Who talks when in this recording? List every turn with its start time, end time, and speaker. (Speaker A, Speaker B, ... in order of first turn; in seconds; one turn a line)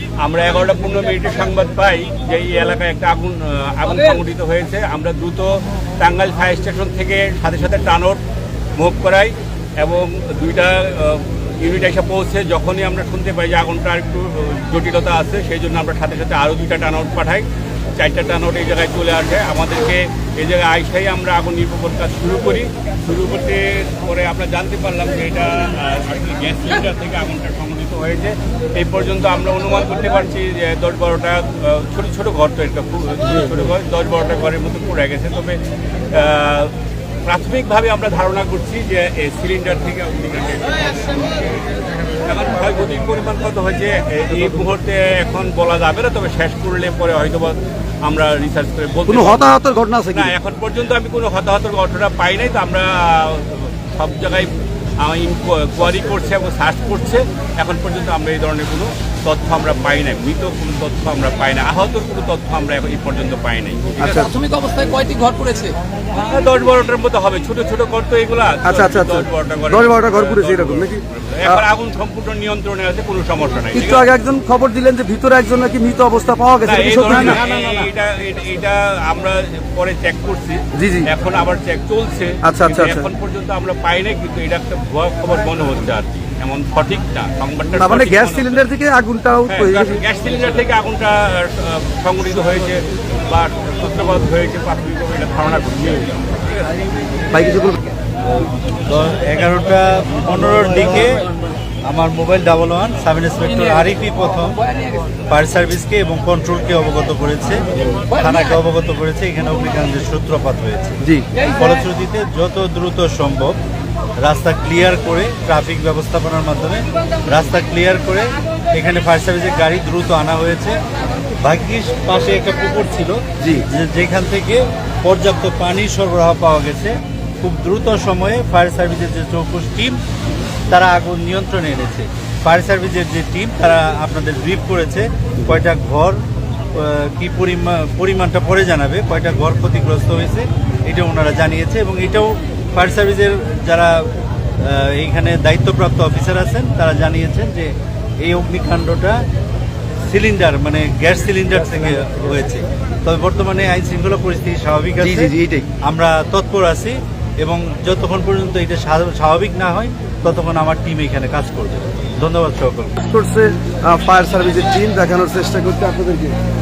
Speaker A: 0.2-8.2
Speaker A: 8.8-35.6
Speaker A: 36.1-36.7
Speaker A: 37.2-41.6
Speaker A: 42.2-49.5
Speaker B: 49.1-50.3
Speaker A: 50.1-64.2
Speaker B: 64.0-64.3
Speaker C: 64.1-65.8
Speaker A: 66.1-74.1
Speaker B: 68.6-71.6
Speaker B: 73.7-77.4
Speaker A: 76.6-88.6
Speaker C: 77.2-77.9
Speaker B: 80.8-81.1
Speaker B: 82.4-83.1
Speaker B: 87.8-90.0
Speaker A: 89.5-96.7
Speaker B: 97.3-97.8
Speaker D: 98.2-101.3
Speaker D: 101.9-104.6
Speaker D: 105.3-113.5
Speaker B: 111.0-111.3
Speaker D: 114.2-120.8
Speaker D: 121.4-123.2
Speaker D: 123.7-130.0
Speaker D: 130.7-136.2
Speaker D: 136.7-144.1
Speaker D: 144.6-147.7
Speaker D: 148.2-149.2
Speaker D: 150.1-155.3
Speaker B: 155.0-155.7
Speaker D: 155.8-162.9
Speaker B: 163.0-166.3